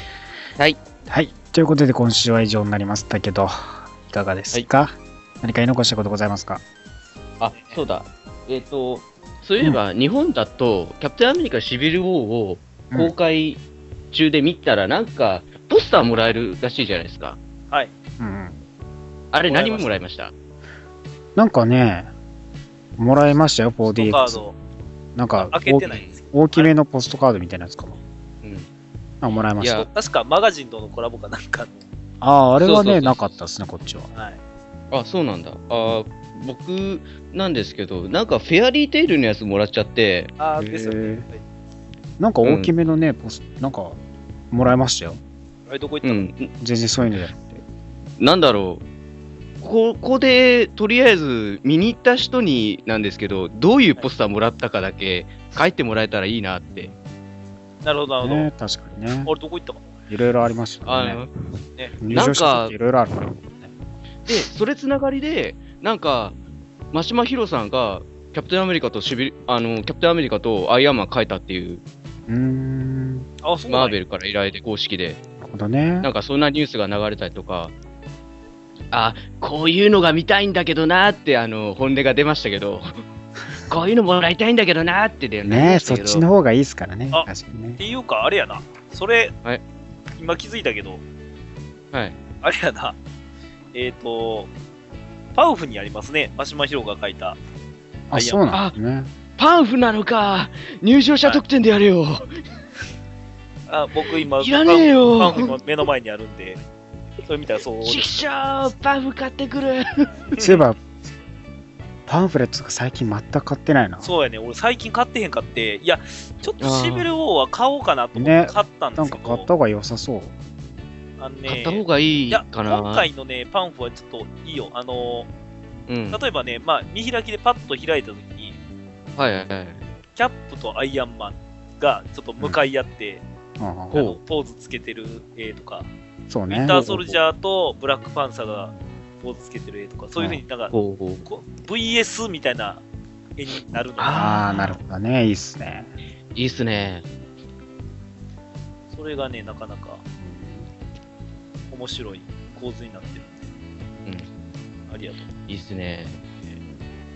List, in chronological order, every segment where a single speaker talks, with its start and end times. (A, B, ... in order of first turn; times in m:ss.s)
0:01.1-0:06.6 A
0:07.4-0:13.6 B
0:07.5-0:07.8 C
0:14.1-0:17.4 B
0:18.2-0:18.6 A
0:19.3-0:20.3 B
0:19.4-0:19.9 C
0:21.4-0:22.1 A
0:23.0-0:24.4 A
0:23.8-0:24.6 C
0:25.1-0:28.0 A
0:25.3-0:26.7 C
0:25.9-0:26.1 B
0:28.4-0:28.7 B
0:29.2-0:29.9 A
0:29.6-0:29.9 B
0:29.7-0:31.9 C
0:32.2-0:34.1 A
0:32.6-0:33.2 B
0:34.1-0:34.4 C
0:34.9-0:40.3 B
0:40.4-0:41.4 C
0:40.6-0:41.3 A
0:42.2-0:44.0 A
0:42.4-0:42.7 B
0:44.5-0:45.2 A
0:45.7-0:46.3 C
0:46.0-0:46.5 B
0:46.6-0:47.6 A
0:48.2-0:48.8 B
0:49.6-0:56.9 B
0:57.8-0:58.5 C
0:58.2-0:59.3 A
0:59.2-1:00.1 C
1:00.1-1:01.2 A
1:00.9-1:01.3 B
1:02.0-1:03.7 A
1:02.1-1:02.7 B
1:04.3-1:06.4 B
1:06.9-1:11.8 B
1:12.3-1:13.3 A
1:13.4-1:14.0 C
1:13.7-1:15.2 B
1:15.4-1:16.1 A
1:16.0-1:17.7 B
1:18.9-1:22.9 B
1:23.7-1:26.3 B
1:25.4-1:27.8 A
1:27.1-1:29.3 C
1:30.2-1:31.0 C
1:32.4-1:33.0 C
1:33.7-1:34.5 C
1:35.3-1:37.4 C
1:38.1-1:39.1 A
1:38.1-1:38.4 C
1:39.4-1:42.3 B
1:43.7-1:46.6 C
1:44.3-1:45.6 B
1:47.3-1:48.0 C
1:47.8-1:50.1 B
1:50.4-1:50.8 A
1:52.1-1:54.1 A
1:54.0-1:59.5 C
1:56.6-1:57.1 B
1:58.1-2:00.3 A
2:01.2-2:05.3 C
2:01.4-2:03.1 B
2:05.9-2:06.2 B
2:06.1-2:08.6 C
2:09.2-2:09.8 B
2:10.2-2:13.2 C
2:13.6-2:14.0 A
2:13.9-2:14.2 B
2:13.9-2:15.9 C
2:16.3-2:16.8 A
2:16.5-2:20.7 C
2:16.7-2:17.2 B
2:20.7-2:21.3 B
2:21.3-2:22.8 C
2:23.4-2:24.3 C
2:24.0-2:24.7 B
2:24.1-2:25.9 A
2:26.4-2:27.0 B
2:28.9-2:30.0 C
2:30.2-2:30.7 A
2:31.7-2:33.4 C
2:34.9-2:35.3 C
2:35.5-2:36.2 B